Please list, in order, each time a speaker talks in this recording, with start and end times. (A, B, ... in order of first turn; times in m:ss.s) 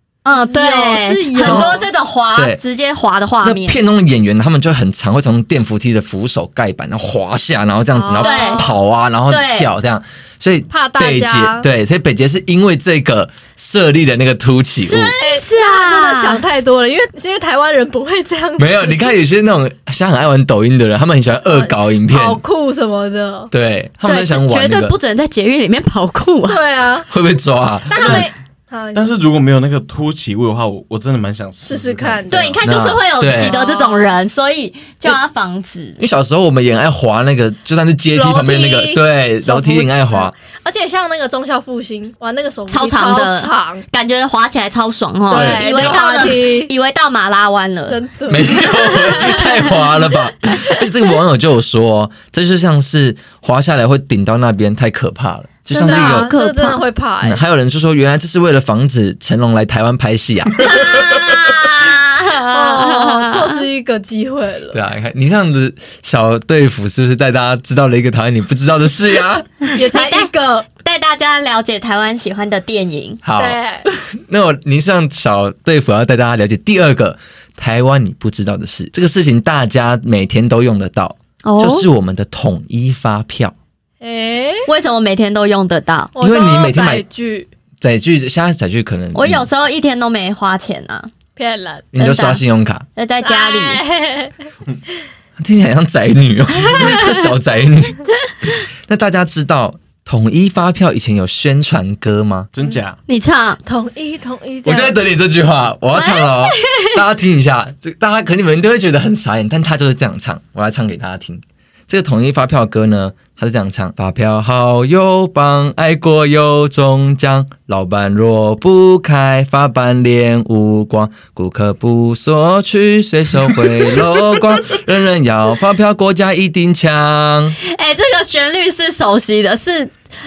0:00.2-0:03.8 A
0:00.3-0:01.9 B
0:01.4-0:01.7 C
0:02.4-0:02.6 C
0:03.4-0:15.1 C
0:07.9-0:08.7 B
0:08.2-0:09.7 A
0:10.7-0:11.7 B
0:14.9-0:16.4 A
0:15.2-0:19.1 B
0:18.6-0:22.4 C
0:21.5-0:23.5 B
0:23.5-0:25.0 C
0:24.0-0:26.6 A
0:26.5-0:27.1 B
0:27.1-0:28.3 C
0:27.9-0:29.1 B
0:28.0-0:28.3 D
0:29.0-0:32.6 D
0:31.6-0:32.6 B
0:32.3-0:36.0 A
0:32.6-0:33.6 C
0:33.2-0:34.1 B
0:36.0-0:40.3 C
0:38.1-0:43.8 B
0:42.7-0:48.6 A
0:45.3-0:46.7 B
0:45.3-0:46.1 D
0:47.9-0:49.6 B
0:48.3-0:56.3 C
0:55.7-0:56.8 A
0:55.8-0:57.4 B
0:57.2-1:00.8 C
1:00.6-1:03.6 A
1:02.5-1:04.8 B
1:04.7-1:09.6 C
1:09.7-1:13.2 A
1:09.7-1:10.7 B
1:13.2-1:23.5 C
1:13.4-1:13.9 B
1:21.4-1:21.9 A
1:24.0-1:24.7 B
1:24.7-1:26.1 A
1:26.2-1:27.5 B
1:26.2-1:27.0 C
1:27.8-1:29.5 C
1:29.1-1:31.1 A
1:31.4-1:31.9 B
1:31.9-1:32.9 C
1:32.0-1:32.4 A
1:33.0-1:33.8 A
1:33.2-1:34.4 B
1:35.4-1:38.1 C
1:36.8-1:37.1 A
1:38.8-1:42.5 C
1:42.5-1:43.0 D
1:43.1-1:43.6 A
1:43.6-1:45.0 B
1:44.6-2:07.6 C
1:45.9-1:47.0 A
2:07.6-2:09.9 A